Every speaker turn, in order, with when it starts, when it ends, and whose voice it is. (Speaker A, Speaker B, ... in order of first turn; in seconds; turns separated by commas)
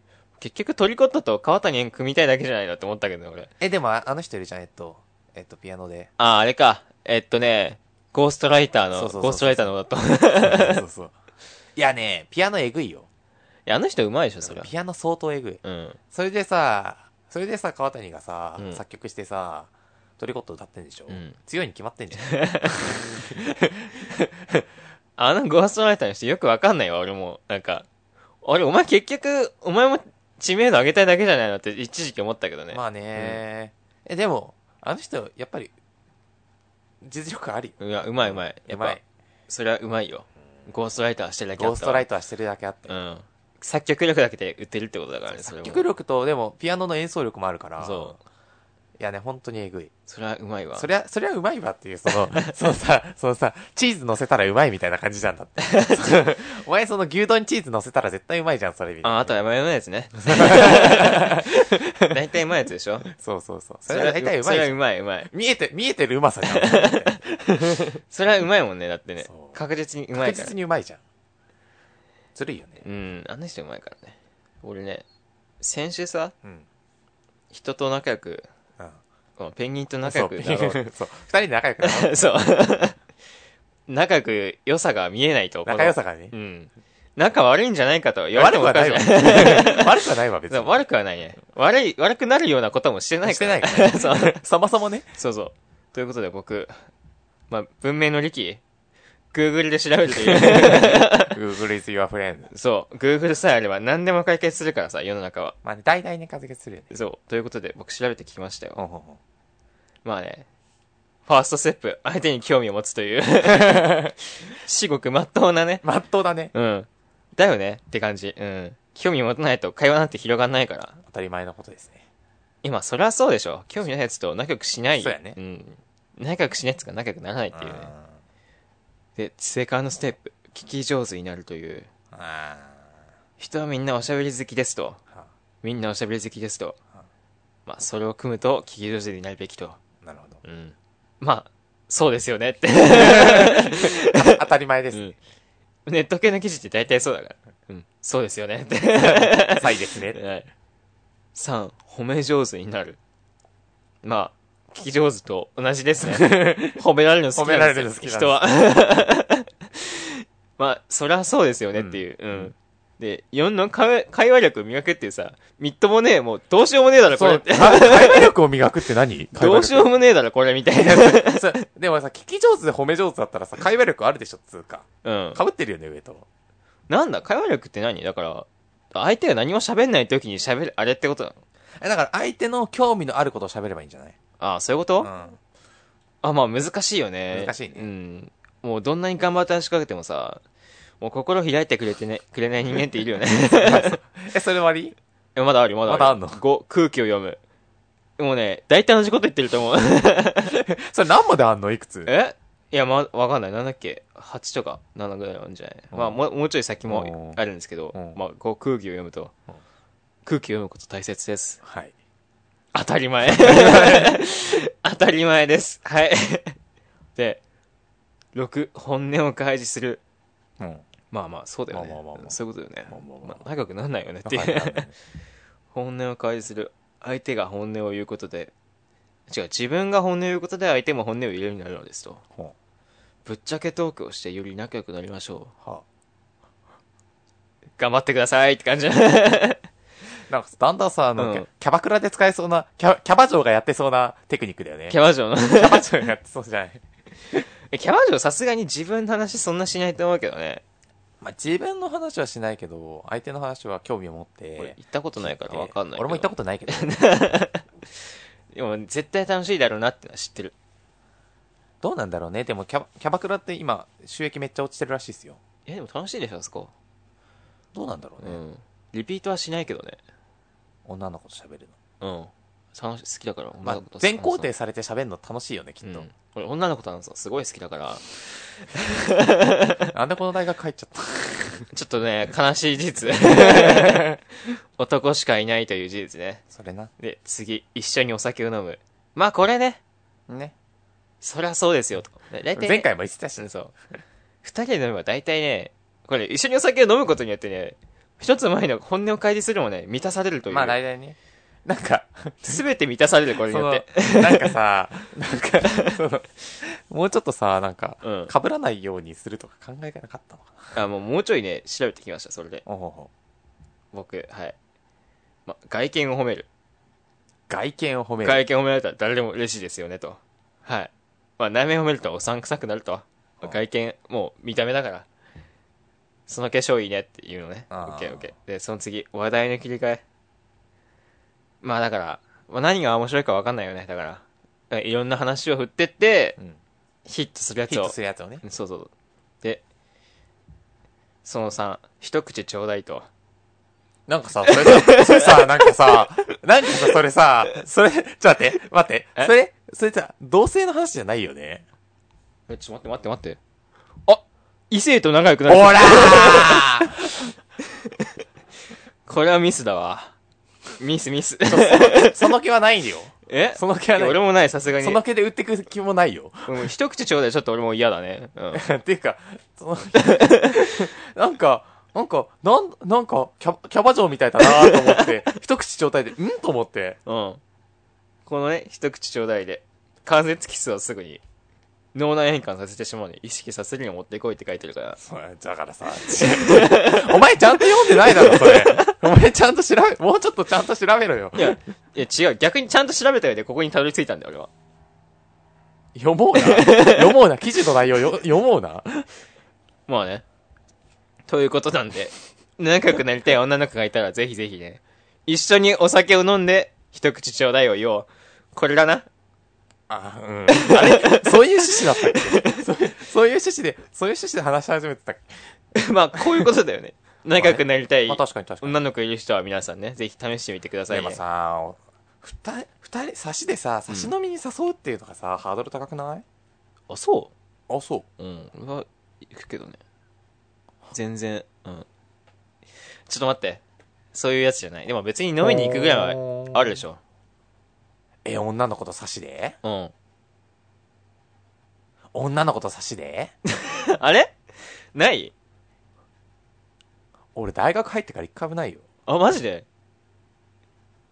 Speaker A: 0.4-3.5, Speaker B: 3.6-6.1, Speaker A: 6.2-10.8, Speaker B: 8.9-9.8, Speaker B: 10.4-11.1, Speaker B: 11.8-13.1, Speaker A: 13.7-14.7, Speaker B: 14.4-24.6, Speaker A: 15.6-16.0, Speaker A: 21.1-21.4, Speaker A: 22.2-22.9, Speaker A: 25.2-27.9, Speaker A: 28.4-33.4, Speaker B: 32.7-35.7, Speaker B: 37.0-39.0, Speaker A: 37.8-42.1, Speaker B: 41.6-43.0, Speaker A: 42.9-45.9, Speaker B: 45.3-48.2, Speaker A: 47.8-48.2, Speaker B: 49.0-49.9, Speaker A: 50.1-50.9, Speaker B: 50.8-59.4, Speaker A: 55.6-56.0, Speaker A: 59.0-63.1, Speaker B: 60.3-62.1, Speaker B: 63.1-64.8, Speaker A: 63.9-65.3, Speaker B: 65.3-67.9, Speaker A: 66.5-70.5, Speaker B: 69.3-69.6, Speaker B: 70.1-71.0, Speaker B: 72.3-72.8, Speaker A: 72.8-75.0, Speaker A: 75.6-76.3, Speaker A: 77.5-78.5, Speaker A: 79.4-80.8, Speaker B: 80.0-82.3, Speaker A: 81.8-83.0, Speaker A: 83.9-90.0, Speaker B: 85.7-86.3, Speaker B: 88.3-90.8, Speaker A: 90.5-94.4, Speaker B: 93.2-95.1, Speaker A: 95.2-96.8, Speaker A: 97.5-98.6, Speaker A: 99.3-101.4, Speaker B: 100.3-102.5, Speaker A: 102.5-105.6, Speaker B: 105.6-107.0, Speaker A: 106.9-108.8, Speaker B: 108.8-109.2, Speaker A: 110.0-110.5, Speaker A: 111.3-115.8, Speaker B: 113.5-114.1, Speaker B: 115.8-116.5, Speaker A: 116.5-121.0, Speaker B: 121.0-122.1, Speaker A: 122.6-127.9, Speaker B: 125.0-125.4, Speaker B: 127.5-128.2, Speaker A: 129.2-131.9, Speaker B: 132.1-132.8, Speaker A: 133.4-135.0, Speaker A: 135.6-136.8, Speaker A: 137.7-139.8, Speaker B: 140.0-140.4, Speaker A: 140.4-144.4, Speaker B: 142.9-145.1, Speaker A: 145.9-150.5, Speaker B: 149.0-150.2, Speaker A: 151.3-153.0, Speaker A: 154.0-168.3, Speaker B: 156.0-156.8, Speaker B: 157.3-158.4, Speaker B: 161.8-162.5, Speaker B: 167.1-169.9, Speaker A: 169.3-171.6, Speaker B: 170.7-176.3, Speaker A: 175.0-175.4, Speaker A: 176.9-181.4, Speaker B: 181.8-184.2, Speaker A: 184.4-185.1, Speaker B: 185.0-185.4, Speaker A: 186.2-190.4, Speaker B: 187.3-187.9, Speaker A: 191.0-194.0, Speaker B: 193.6-195.0, Speaker A: 195.3-197.4, Speaker B: 195.9-196.4, Speaker A: 198.2-200.6, Speaker B: 200.5-202.1, Speaker A: 202.1-209.3, Speaker B: 205.9-206.2, Speaker B: 206.9-207.4, Speaker B: 207.9-208.2, Speaker A: 210.3-211.6, Speaker B: 211.6-211.9, Speaker A: 212.7-216.6, Speaker B: 213.4-214.2, Speaker A: 217.2-217.4, Speaker A: 218.3-220.0, Speaker B: 220.6-220.8, Speaker A: 221.1-224.9, Speaker B: 221.7-222.4, Speaker B: 222.9-223.5, Speaker B: 224.2-224.9, Speaker A: 225.7-228.5, Speaker A: 229.3-232.2, Speaker A: 233.2-235.5, Speaker A: 237.8-239.6, Speaker B: 240.3-246.8, Speaker A: 241.2-241.5, Speaker A: 244.9-245.9, Speaker A: 247.7-250.6, Speaker B: 251.2-257.0, Speaker A: 254.6-257.7, Speaker A: 258.5-260.5, Speaker B: 261.8-265.4, Speaker A: 265.7-266.7, Speaker B: 267.7-268.4, Speaker A: 268.2-270.0, Speaker B: 270.9-271.8, Speaker A: 272.0-274.5, Speaker B: 273.6-276.1, Speaker A: 275.8-279.9, Speaker B: 279.9-281.7, Speaker A: 281.7-284.2, Speaker B: 283.2-284.2, Speaker A: 284.8-286.4, Speaker B: 286.5-286.9, Speaker A: 287.0-289.8, Speaker B: 290.3-290.5, Speaker A: 291.2-293.7, Speaker B: 292.6-293.5, Speaker A: 294.4-300.8, Speaker B: 300.5-302.6, Speaker A: 302.4-304.6, Speaker B: 303.5-310.8, Speaker A: 305.6-306.0, Speaker A: 308.0-308.3, Speaker A: 310.7-312.6, Speaker B: 312.6-313.1, Speaker A: 313.9-314.6, Speaker A: 315.5-316.5, Speaker B: 317.5-318.4, Speaker A: 318.2-325.1, Speaker A: 326.3-330.0, Speaker B: 327.7-328.3, Speaker A: 331.6-336.4, Speaker A: 337.1-338.9, Speaker B: 337.7-338.4, Speaker A: 341.2-343.1, Speaker B: 344.1-351.6, Speaker A: 344.5-345.7, Speaker A: 352.5-353.4, Speaker A: 354.1-357.0, Speaker B: 355.5-357.3, Speaker A: 359.1-360.1, Speaker A: 360.8-362.3, Speaker B: 361.5-364.2, Speaker A: 363.3-365.0, Speaker B: 364.8-366.7, Speaker A: 366.5-368.6, Speaker B: 368.6-377.0, Speaker A: 370.0-370.5, Speaker A: 374.6-375.0, Speaker A: 377.1-377.4, Speaker A: 378.3-381.2, Speaker A: 381.9-385.0, Speaker B: 385.0-391.6, Speaker A: 386.2-389.0, Speaker A: 391.4-394.5, Speaker B: 395.9-399.1, Speaker A: 396.4-397.2, Speaker A: 399.9-400.2, Speaker A: 401.3-409.1, Speaker B: 409.9-415.6, Speaker A: 410.5-412.6, Speaker A: 415.7-421.2, Speaker B: 416.2-416.5, Speaker B: 417.4-418.8, Speaker B: 420.9-426.2, Speaker A: 426.9-427.3, Speaker B: 427.7-428.1, Speaker A: 428.2-429.8, Speaker A: 430.9-431.9, Speaker A: 433.1-433.6, Speaker A: 434.1-437.0, Speaker B: 435.4-436.8, Speaker B: 438.2-439.6, Speaker A: 439.6-439.9, Speaker B: 442.1-443.3, Speaker A: 443.5-444.4, Speaker A: 444.9-445.3, Speaker B: 447.4-448.9, Speaker A: 449.1-449.7